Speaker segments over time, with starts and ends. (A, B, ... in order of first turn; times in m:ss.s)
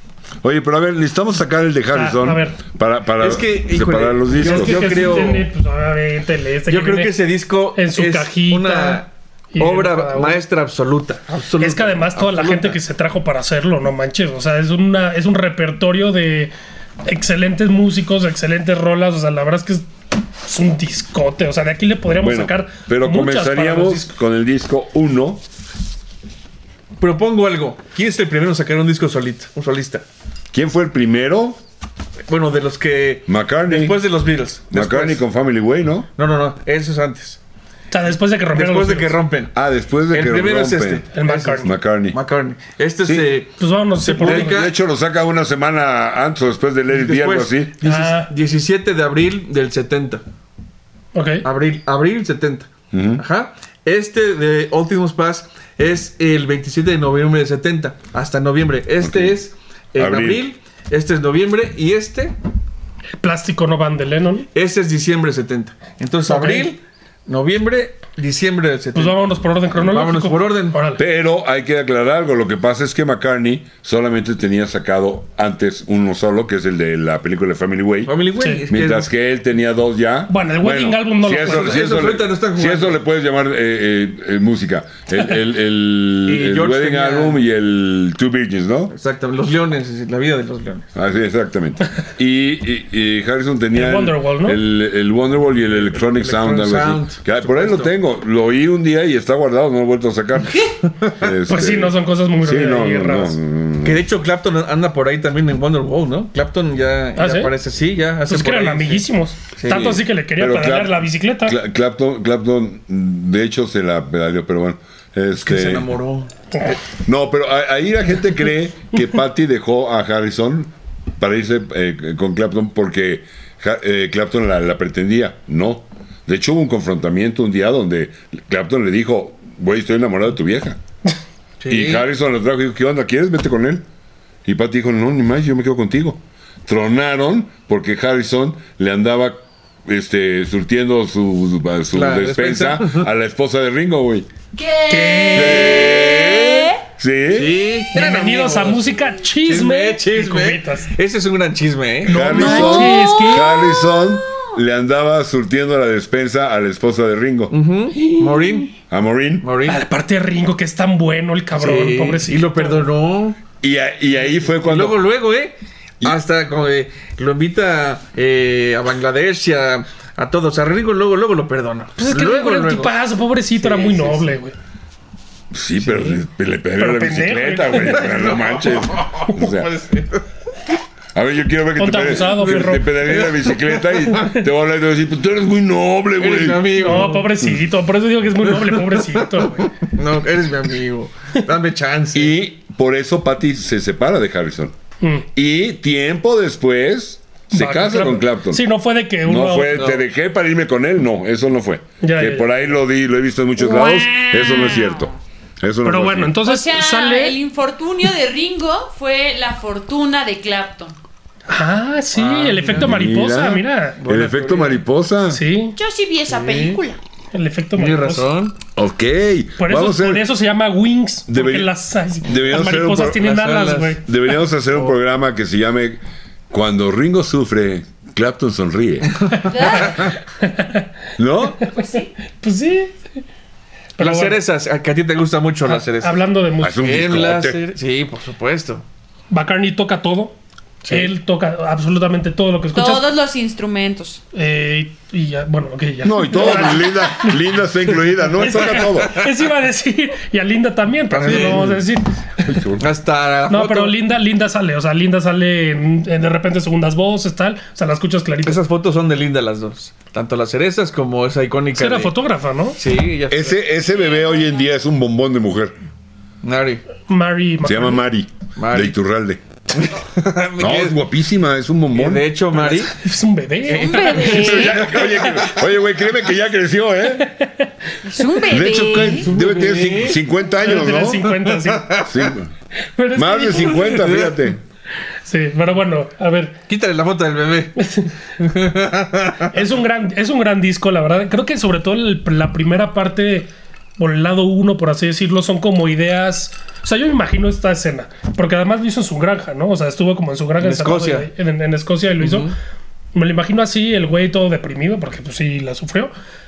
0:00.4-0:05.2 A
0:01.9-0:02.6 B
0:03.2-0:05.5 C
0:04.4-0:07.1 B
0:06.7-0:12.8 C
0:07.8-0:10.4 B
0:11.6-0:16.5 B
0:17.0-0:19.9 B
0:20.4-0:24.1 B
0:22.2-0:25.4 A
0:27.0-0:30.0 C
0:30.5-0:31.6 A
0:32.3-0:35.2 C
0:33.3-0:34.0 A
0:34.7-0:36.1 A
0:36.2-0:37.4 C
0:37.9-0:39.2 B
0:38.5-0:39.5 C
0:39.5-0:41.1 A
0:40.1-0:44.7 C
0:41.1-0:41.7 B
0:41.6-0:42.2 A
0:43.0-0:43.3 A
0:43.6-0:44.6 B
0:44.2-0:47.7 A
0:46.9-0:50.2 C
0:47.8-0:48.3 B
0:51.1-0:51.5 B
0:51.4-1:02.4 C
0:52.9-0:53.2 A
0:59.0-0:59.4 A
1:00.0-1:00.4 A
1:03.2-1:04.5 B
1:04.5-1:09.2 C
1:06.3-1:06.7 B
1:09.0-1:11.0 B
1:09.7-1:10.8 C
1:11.0-1:18.2 A
1:18.0-1:19.1 C
1:18.7-1:28.9 A
1:20.3-1:22.0 B
1:21.3-1:23.0 C
1:26.3-1:27.4 C
1:28.9-1:30.9 C
1:31.0-1:44.0 A
1:33.7-1:34.6 B
1:35.8-1:37.9 C
1:41.5-1:43.4 B
1:43.8-1:50.0 C
1:47.2-1:47.5 B
1:48.3-1:51.6 B
1:49.7-1:55.9 A
1:55.4-1:56.3 C
1:56.9-2:10.8 A
2:11.6-2:12.0 C
2:11.7-2:13.8 A
2:14.4-2:24.3 A
2:21.9-2:23.1 C
2:24.5-2:26.8 D
2:24.9-2:25.9 B
2:25.3-2:27.6 A
2:27.3-2:28.9 C
2:27.9-2:30.9 B
2:29.5-2:32.6 C
2:32.1-2:33.5 B
2:32.1-2:37.5 A
2:32.4-2:34.5 D
2:37.5-2:38.7 C
2:38.1-2:38.6 B
2:38.9-2:39.5 A
2:39.4-2:39.8 C
2:39.6-2:42.9 B
2:41.5-2:43.4 C
2:43.6-2:45.0 A
2:44.4-2:53.0 C
2:52.0-2:54.6 B
2:53.6-2:54.4 C
2:55.5-2:59.7 A
2:56.8-2:58.2 B
2:58.0-3:00.2 C
3:01.2-3:07.6 A
3:01.8-3:03.1 B
3:02.6-3:03.9 C
3:06.2-3:07.3 C
3:06.8-3:09.7 B
3:08.9-3:12.3 C
3:12.1-3:14.8 A
3:15.0-3:15.3 B
3:15.3-3:18.6 A
3:17.5-3:19.9 B
3:19.2-3:26.4 A
3:19.7-3:20.0 C
3:22.0-3:22.5 B
3:23.6-3:25.1 D
3:25.8-3:27.4 B
3:26.4-3:31.0 D
3:31.5-3:34.0 B
3:32.2-3:32.9 C
3:32.7-3:35.4 A
3:34.0-3:34.8 C
3:35.3-3:35.8 B
3:35.8-3:37.0 D
3:36.3-3:36.8 C
3:37.3-3:38.3 B
3:37.8-3:38.6 C
3:38.8-3:40.2 A
3:39.6-3:44.1 B
3:41.3-3:41.7 A
3:42.2-3:43.3 A
3:43.1-3:44.0 C
3:44.0-3:49.2 A
3:49.5-3:50.1 D
3:49.5-3:50.9 B
3:51.2-3:51.7 A
3:51.6-3:53.0 B
3:51.8-3:52.1 D
3:54.0-3:54.4 B
3:54.0-3:56.2 C
3:55.7-3:57.3 B
3:56.6-3:57.6 A
3:56.8-3:58.8 C
3:59.3-4:00.4 B
4:00.8-4:01.1 C
4:00.9-4:03.1 B
4:02.7-4:04.2 D
4:04.3-4:07.6 B
4:06.0-4:09.2 A
4:08.4-4:12.6 B
4:08.4-4:09.2 C
4:11.1-4:11.8 C
4:11.3-4:11.8 A
4:12.4-4:12.8 A
4:12.8-4:14.0 C
4:13.5-4:18.6 B
4:18.4-4:22.1 C
4:21.8-4:22.8 B
4:22.8-4:23.6 C
4:23.3-4:25.8 A
4:23.9-4:24.6 D
4:26.4-4:26.8 C
4:27.1-4:28.0 B
4:27.6-4:29.4 A
4:28.6-4:29.0 C
4:29.7-4:31.0 C
4:30.6-4:32.3 A
4:31.9-4:33.0 C
4:32.7-4:35.5 B
4:33.7-4:34.9 D
4:33.7-4:35.5 C
4:34.2-4:37.3 A
4:37.2-4:38.5 B
4:38.0-4:39.3 D
4:38.5-4:41.3 A
4:39.2-4:40.2 C
4:40.6-4:42.0 B
4:41.0-4:42.3 C
4:42.0-4:42.5 A
4:42.9-4:44.1 B
4:43.2-4:44.6 A
4:43.7-4:44.5 C
4:45.2-4:46.6 B
4:46.7-4:47.8 C
4:47.8-4:48.1 B
4:48.4-4:49.6 C
4:49.5-5:02.5 B
5:00.6-5:01.3 C
5:02.2-5:02.6 C
5:03.1-5:06.1 B